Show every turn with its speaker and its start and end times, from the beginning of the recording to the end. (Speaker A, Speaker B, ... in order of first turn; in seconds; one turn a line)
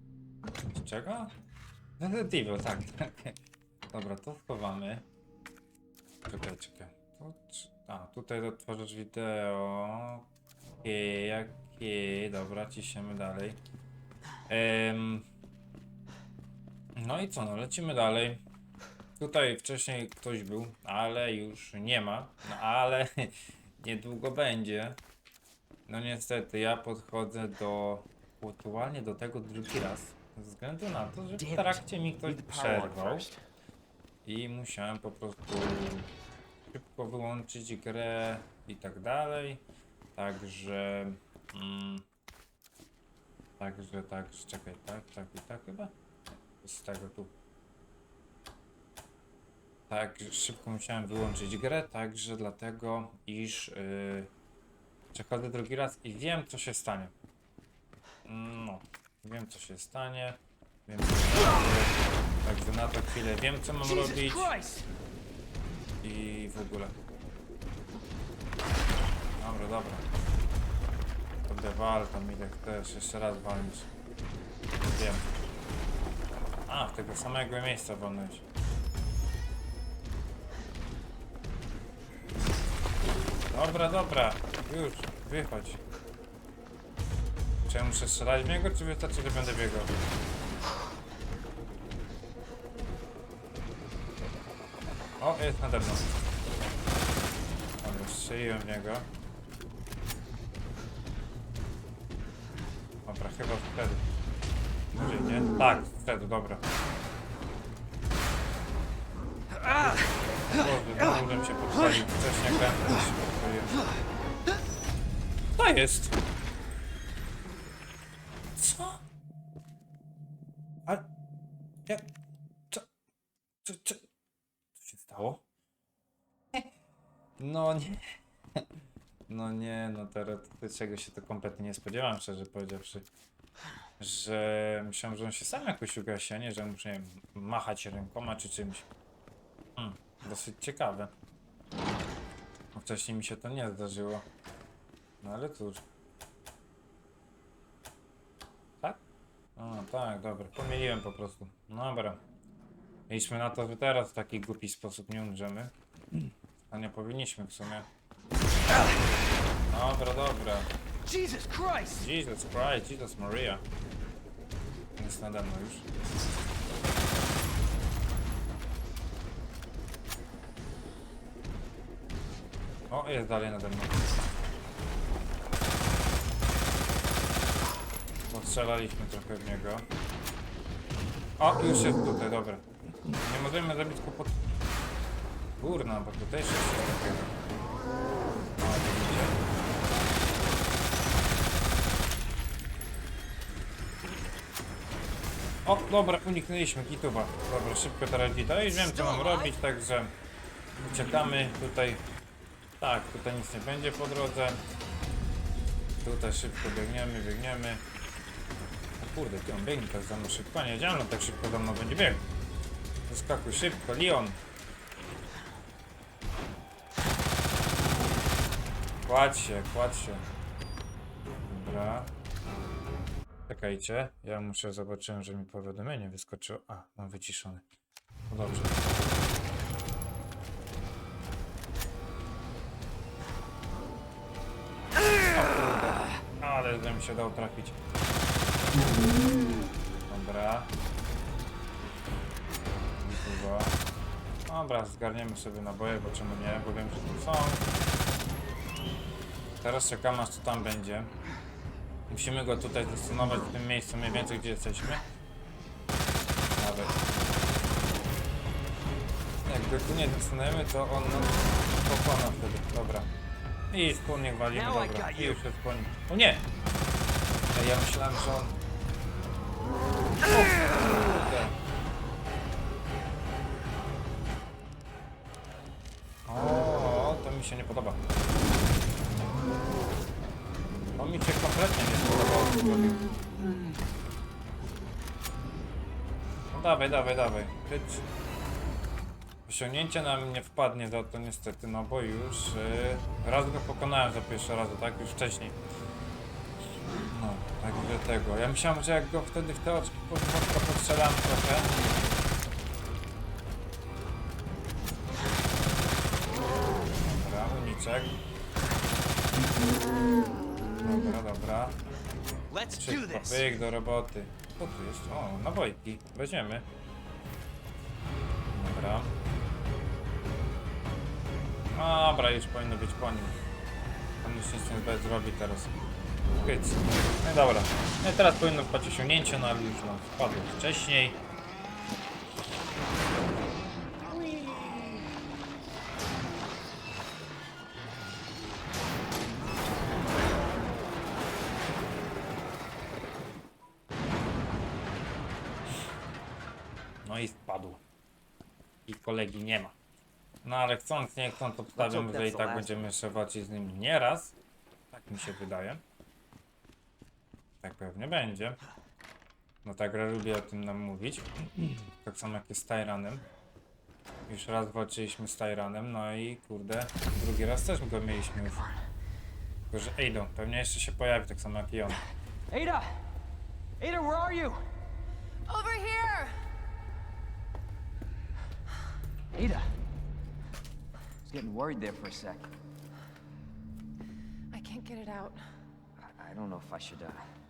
Speaker A: 0.7-1.4
Speaker A: 2.0-3.4
Speaker A: 3.9-5.1
Speaker A: 6.3-10.3
Speaker A: 10.8-13.6
Speaker A: 14.5-15.3
Speaker A: 17.0-18.4
Speaker A: 19.2-25.0
Speaker A: 25.9-33.3
Speaker B: 31.4-33.4
Speaker A: 34.2-36.1
Speaker A: 36.7-39.6
Speaker A: 40.1-42.0
Speaker A: 43.6-46.0
Speaker A: 46.5-47.3
Speaker A: 49.9-54.3
Speaker A: 55.1-57.1
Speaker A: 58.2-64.6
Speaker B: 63.8-64.9
Speaker A: 66.0-67.0
Speaker A: 69.4-70.1
Speaker A: 71.5-73.9
Speaker A: 74.8-75.3
Speaker A: 76.7-78.5
Speaker A: 83.5-85.8
Speaker A: 87.7-89.9
Speaker A: 95.2-96.1
Speaker A: 97.8-99.1
Speaker A: 103.1-104.0
Speaker A: 104.9-106.6
Speaker A: 109.7-113.8
Speaker A: 115.5-116.2
Speaker A: 118.6-119.0
Speaker A: 123.6-124.1
Speaker A: 124.8-125.4
Speaker A: 127.4-128.6
Speaker A: 129.3-133.1
Speaker A: 134.0-138.9
Speaker A: 139.8-141.1
Speaker A: 142.7-144.3
Speaker A: 145.2-145.8
Speaker A: 149.6-152.2
Speaker A: 153.1-157.9
Speaker A: 159.7-160.7
Speaker B: 161.1-162.1
Speaker A: 161.9-163.6
Speaker A: 165.0-165.9
Speaker A: 172.9-174.1
Speaker A: 178.3-179.9
Speaker A: 181.4-184.4
Speaker A: 185.6-187.3
Speaker A: 188.6-189.4
Speaker A: 195.7-200.1
Speaker B: 198.9-199.5
Speaker A: 200.8-202.0
Speaker A: 202.8-204.6
Speaker A: 206.0-207.8
Speaker A: 209.0-212.3
Speaker A: 213.1-214.4
Speaker A: 219.1-220.2
Speaker A: 221.5-222.1
Speaker A: 223.5-227.6
Speaker A: 228.3-229.0
Speaker A: 235.3-237.8
Speaker A: 240.1-240.7
Speaker A: 243.0-243.8
Speaker A: 244.5-247.6
Speaker A: 249.6-251.1
Speaker A: 252.1-255.1
Speaker A: 256.5-257.0
Speaker A: 259.4-263.1
Speaker A: 263.7-266.5
Speaker B: 264.5-265.4
Speaker A: 267.5-268.6
Speaker A: 270.2-271.6
Speaker A: 276.3-278.0
Speaker A: 281.0-283.1
Speaker A: 286.5-288.0
Speaker A: 289.5-295.6
Speaker A: 297.0-301.7
Speaker A: 307.0-308.2
Speaker A: 310.8-311.8
Speaker B: 312.5-313.6
Speaker A: 312.8-316.7
Speaker A: 318.5-319.1
Speaker A: 321.7-323.4
Speaker A: 324.2-325.8
Speaker A: 326.4-331.2
Speaker A: 334.1-335.1
Speaker A: 347.0-347.8
Speaker A: 348.9-349.8
Speaker A: 350.4-354.4
Speaker B: 351.8-352.9
Speaker A: 354.9-355.8
Speaker A: 357.6-358.6
Speaker A: 359.6-363.2
Speaker A: 364.3-368.6
Speaker A: 369.7-372.0
Speaker B: 372.5-373.1
Speaker B: 373.8-374.6
Speaker C: 375.5-376.5
Speaker B: 379.3-379.8
Speaker B: 381.2-382.6
Speaker C: 384.5-385.5
Speaker B: 386.0-387.3